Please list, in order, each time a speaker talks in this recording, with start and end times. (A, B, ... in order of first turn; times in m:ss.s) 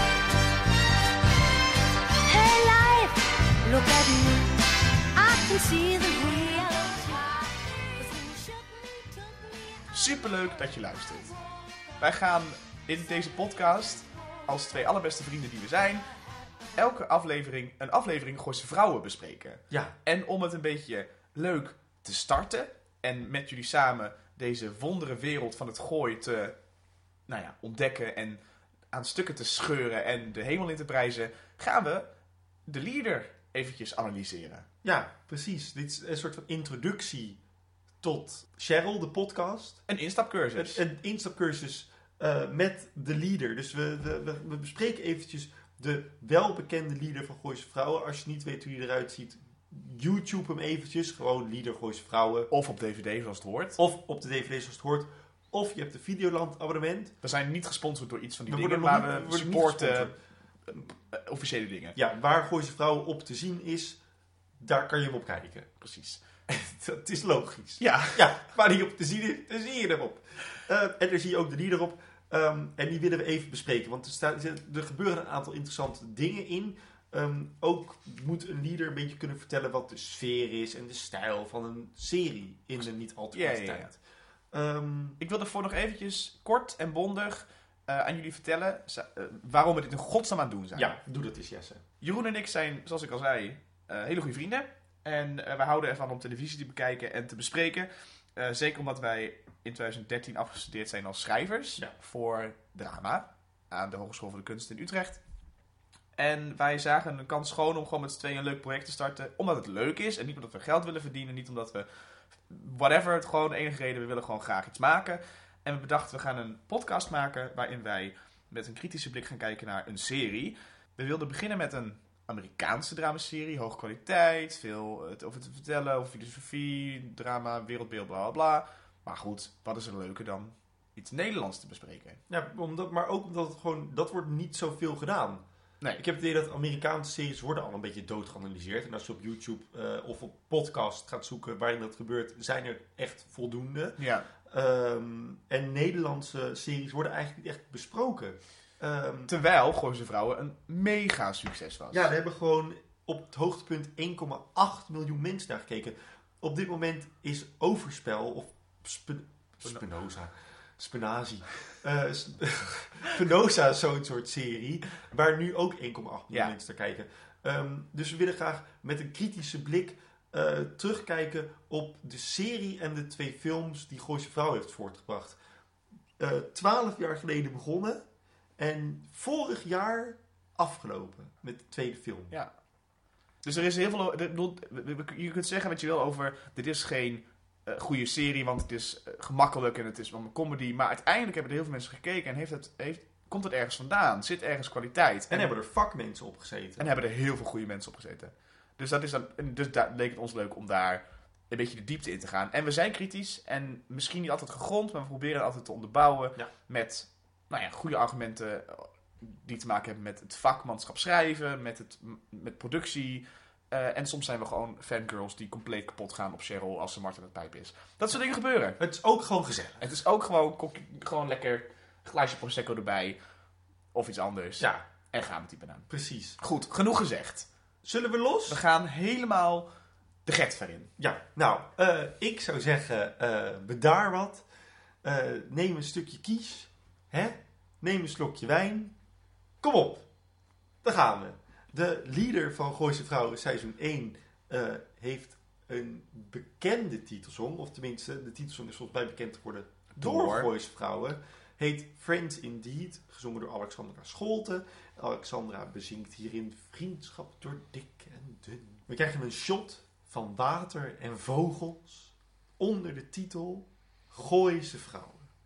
0:02.2-0:10.4 A
0:09.9-0:11.4 B
0:12.0-0:16.1 B
0:16.7-0:26.6 B
0:19.7-0:20.0 C
0:27.3-0:28.4 B
0:28.9-0:32.1 B
0:32.7-0:34.7 B
0:34.8-0:37.4 C
0:38.0-0:39.8 C
0:39.9-0:40.8 B
0:40.5-0:52.5 C
0:52.5-0:53.8 B
0:53.8-0:57.1 C
0:57.2-1:00.1 B
0:58.5-1:00.2 C
1:00.7-1:02.0 B
1:01.9-1:04.0 C
1:04.6-1:05.7 C
1:05.8-1:06.2 B
1:06.5-1:24.0 C
1:07.8-1:08.3 B
1:23.3-1:23.9 B
1:24.5-1:25.2 C
1:25.2-1:31.0 B
1:30.7-1:31.8 C
1:32.0-1:45.2 B
1:46.2-1:51.8 B
1:52.5-2:12.2 B
2:12.3-2:15.4 C
2:16.0-2:29.3 C
2:24.0-2:24.3 B
2:29.3-2:32.1 B
2:31.9-2:55.4 C
2:56.2-2:58.0 C
2:58.6-3:02.3 C
3:03.4-3:15.5 B
3:15.3-3:16.9 C
3:16.8-3:38.8 B
3:38.8-3:39.8 C
3:39.8-3:43.2 B
3:43.9-3:45.9 B
3:45.9-3:46.4 C
3:46.4-3:47.5 B
3:47.8-3:48.6 C
3:48.5-3:49.7 B
3:50.2-3:50.9 B
3:51.0-3:54.4 C
3:55.0-3:58.9 C
3:59.6-4:00.0 C
4:00.8-4:25.3 C
4:09.9-4:10.5 B